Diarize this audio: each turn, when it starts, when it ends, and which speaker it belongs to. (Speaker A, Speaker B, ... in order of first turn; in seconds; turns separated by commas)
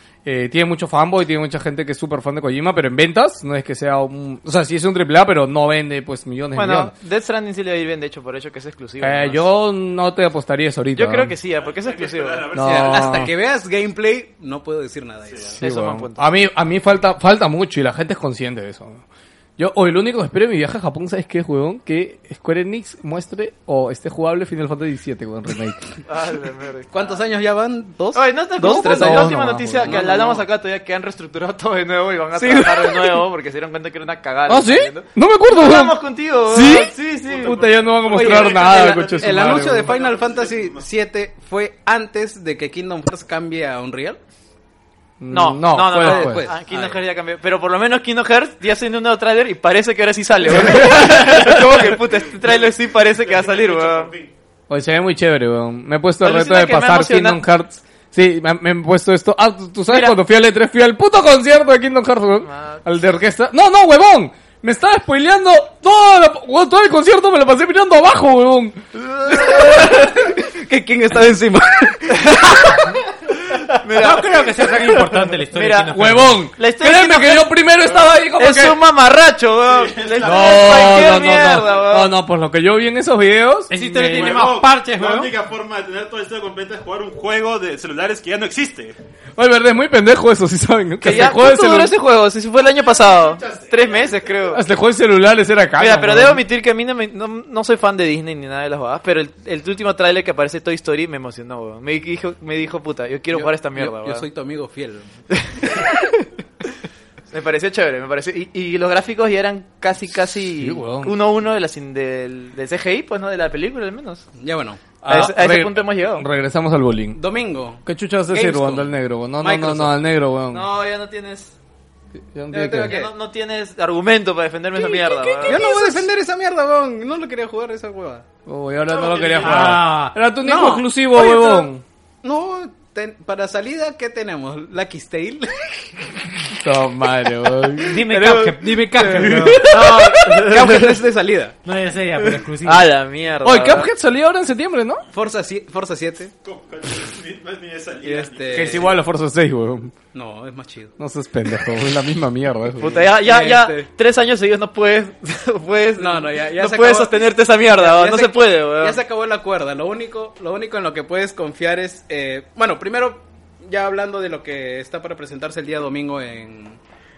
Speaker A: 0.2-6.9, Speaker B: 6.5-9.4, Speaker A: 9.0-11.3, Speaker B: 10.9-12.5, Speaker C: 11.5-13.3, Speaker A: 12.5-13.3, Speaker D: 12.6-15.6, Speaker C: 15.3-15.6, Speaker A: 15.6-19.0, Speaker B: 15.6-16.2, Speaker A: 19.6-25.8, Speaker B: 26.1-27.2, Speaker D: 26.9-30.4, Speaker B: 28.1-37.6, Speaker A: 28.6-30.0, Speaker A: 32.4-32.8, Speaker A: 34.5-39.9, Speaker C: 37.2-40.9, Speaker D: 38.0-44.2, Speaker A: 45.2-46.5, Speaker B: 45.3-54.1, Speaker D: 45.9-47.0, Speaker A: 50.6-51.7, Speaker C: 52.3-54.3, Speaker A: 54.7-68.8, Speaker B: 56.2-57.4, Speaker B: 59.9-60.1, Speaker B: 62.5-62.8, Speaker D: 69.2-72.9, Speaker B: 69.3-69.5, Speaker B: 72.2-73.0, Speaker B: 73.5-76.0, Speaker E: 73.9-76.4, Speaker A: 75.9-78.8, Speaker B: 76.5-82.1, Speaker C: 79.7-81.5, Speaker A: 80.2-83.7, Speaker E: 83.7-85.3, Speaker C: 83.9-89.0, Speaker B: 84.0-84.4, Speaker A: 89.3-91.9, Speaker B: 91.0-94.6, Speaker C: 93.2-93.8, Speaker A: 94.5-96.4, Speaker B: 95.8-104.2, Speaker D: 103.3-105.1, Speaker B: 105.3-106.0, Speaker B: 107.3-114.2, Speaker A: 110.6-111.1, Speaker D: 114.4-114.8, Speaker A: 115.0-117.2, Speaker B: 115.0-116.2, Speaker D: 117.1-120.0, Speaker A: 117.8-120.6, Speaker B: 120.5-121.5, Speaker A: 122.3-123.0, Speaker D: 122.5-123.1, Speaker B: 122.9-125.6, Speaker A: 124.8-126.0, Speaker D: 125.4-128.2, Speaker A: 128.4-131.8, Speaker D: 128.9-129.8, Speaker E: 129.4-130.2, Speaker D: 130.4-131.7, Speaker D: 132.2-135.7, Speaker A: 136.6-140.6, Speaker E: 137.8-139.7, Speaker B: 138.1-138.5, Speaker D: 139.6-141.6, Speaker B: 139.7-140.7, Speaker E: 141.6-142.9, Speaker B: 142.6-143.9, Speaker A: 143.4-145.0, Speaker D: 145.1-146.3, Speaker C: 146.4-148.9, Speaker D: 148.0-148.9, Speaker A: 148.5-149.9, Speaker D: 150.1-150.9, Speaker A: 151.0-153.0, Speaker B: 152.8-159.0, Speaker D: 152.8-153.9, Speaker D: 156.0-166.8